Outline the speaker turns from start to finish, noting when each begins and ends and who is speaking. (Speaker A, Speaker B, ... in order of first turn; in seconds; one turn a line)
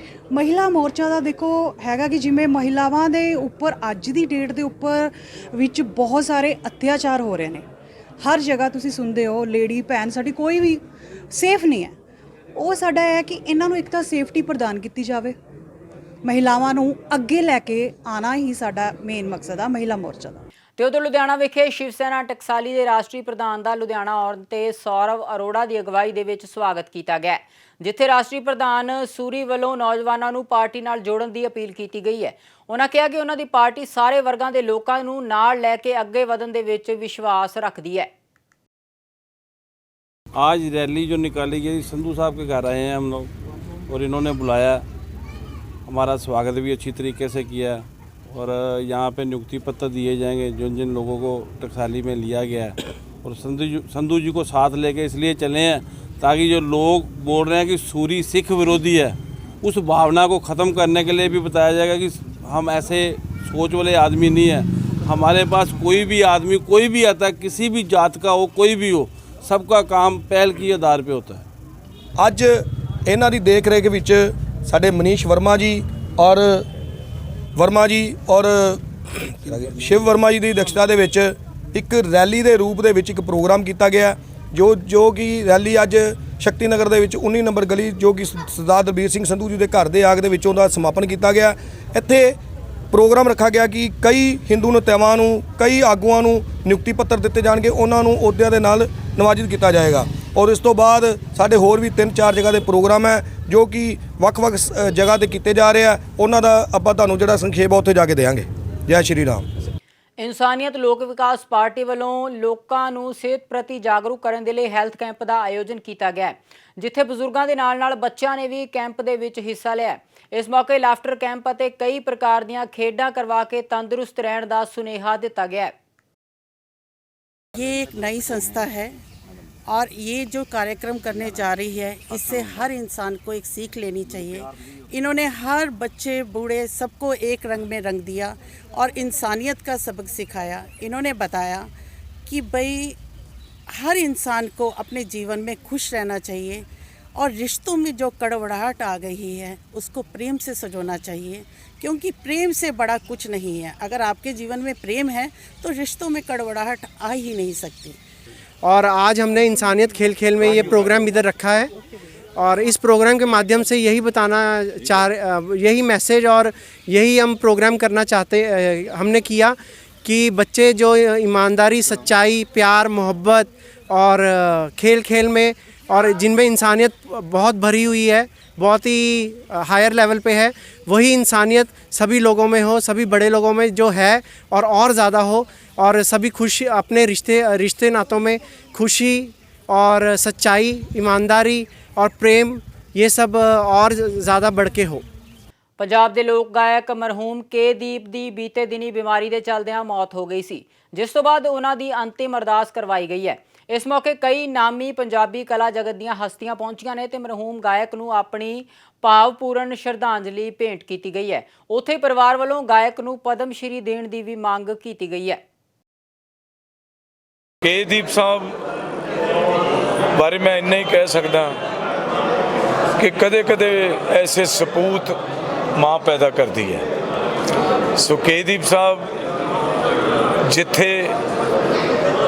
Speaker A: 0.3-7.7
Speaker A: 8.2-12.0
Speaker A: 12.6-15.3
Speaker A: 16.2-20.4
Speaker B: 20.8-38.1
Speaker C: 40.4-43.3
Speaker C: 43.9-44.9
Speaker C: 45.9-71.5
Speaker D: 72.2-76.7
Speaker D: 77.6-92.4
Speaker D: 92.9-109.5
Speaker B: 110.2-125.7
Speaker E: 127.5-129.0
Speaker E: 129.7-141.7
Speaker E: 142.3-143.0
Speaker E: 143.7-146.7
Speaker E: 147.2-158.0
Speaker F: 158.6-161.7
Speaker F: 162.4-195.0
Speaker B: 195.8-215.4
Speaker G: 217.6-218.6
Speaker G: 220.2-221.6
Speaker G: 223.0-225.2
Speaker G: 225.8-226.9
Speaker G: 228.0-229.1
Speaker G: 230.5-231.2